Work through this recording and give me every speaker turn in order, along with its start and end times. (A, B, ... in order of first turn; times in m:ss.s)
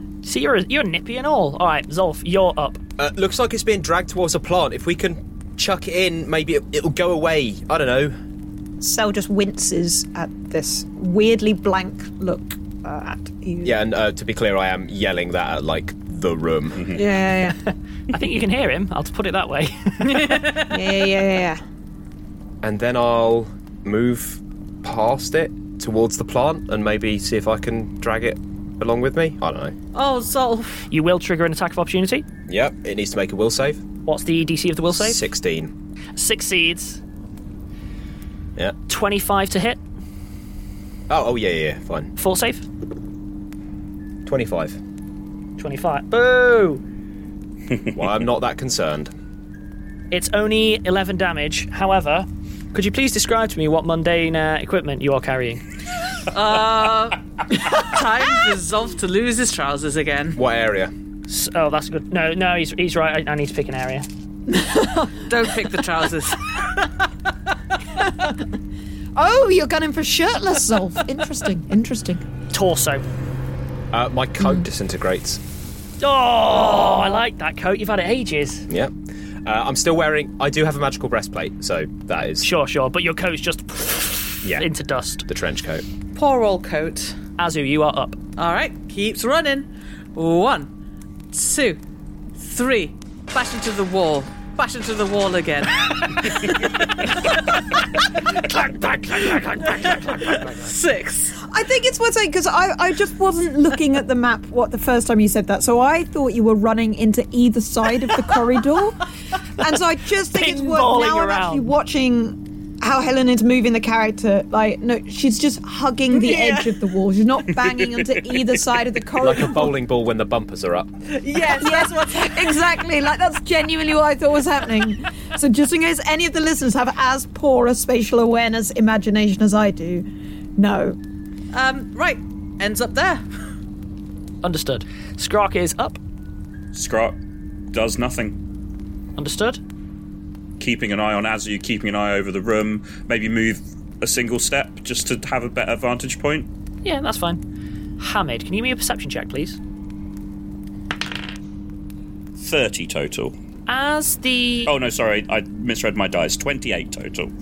0:00.2-0:02.8 A
0:03.0-0:08.1 B
0:08.8-0:13.7 C
0:13.6-0:17.0 B
0:16.9-0:17.6 C
0:17.6-0:20.4 A
0:20.0-0:20.8 D
0:20.6-0:21.6 C
0:22.6-0:29.8 B
0:29.9-0:30.9 D
0:30.9-0:32.2 A
0:32.5-0:33.8 B
0:34.0-0:35.2 A
0:34.9-0:35.7 B
0:36.2-0:37.0 A
0:38.9-0:39.8 A
0:41.1-0:42.1 B
0:42.2-0:42.7 A
0:44.2-0:44.8 B
0:45.6-0:46.8 A
0:47.9-0:49.1 B
0:50.1-0:55.6 A
0:56.3-1:00.4 D
1:00.3-1:00.9 B
1:01.3-1:04.0 A
1:04.5-1:05.2 C
1:05.2-1:06.9 D
1:08.0-1:08.4 C
1:09.2-1:12.2 C
1:12.5-1:13.0 A
1:13.9-1:15.4 B
1:16.0-1:18.7 A
1:18.7-1:18.9 B
1:19.4-1:22.5 B
1:22.4-1:25.2 A
1:25.3-1:25.8 B
1:26.1-1:27.2 D
1:27.4-1:28.2 A
1:28.4-1:30.7 D
1:31.3-1:31.8 D
1:32.4-1:37.4 D
1:38.2-1:40.7 A
1:39.8-1:41.4 D
1:41.4-1:49.0 C
1:49.6-1:59.7 C
1:50.3-1:51.7 A
1:56.1-1:56.8 D
1:57.9-1:58.4 E
1:59.2-2:01.0 B
2:01.1-2:02.6 D
2:01.5-2:10.0 C
2:10.6-2:11.0 C
2:11.5-2:13.2 D
2:14.4-2:16.0 A
2:16.7-2:17.2 E
2:17.7-2:18.4 E
2:19.2-2:19.6 A
2:20.6-2:26.5 E
2:26.8-2:27.4 A
2:28.0-2:29.6 A
2:32.4-2:33.3 E
2:33.7-2:34.7 A
2:34.6-2:37.3 E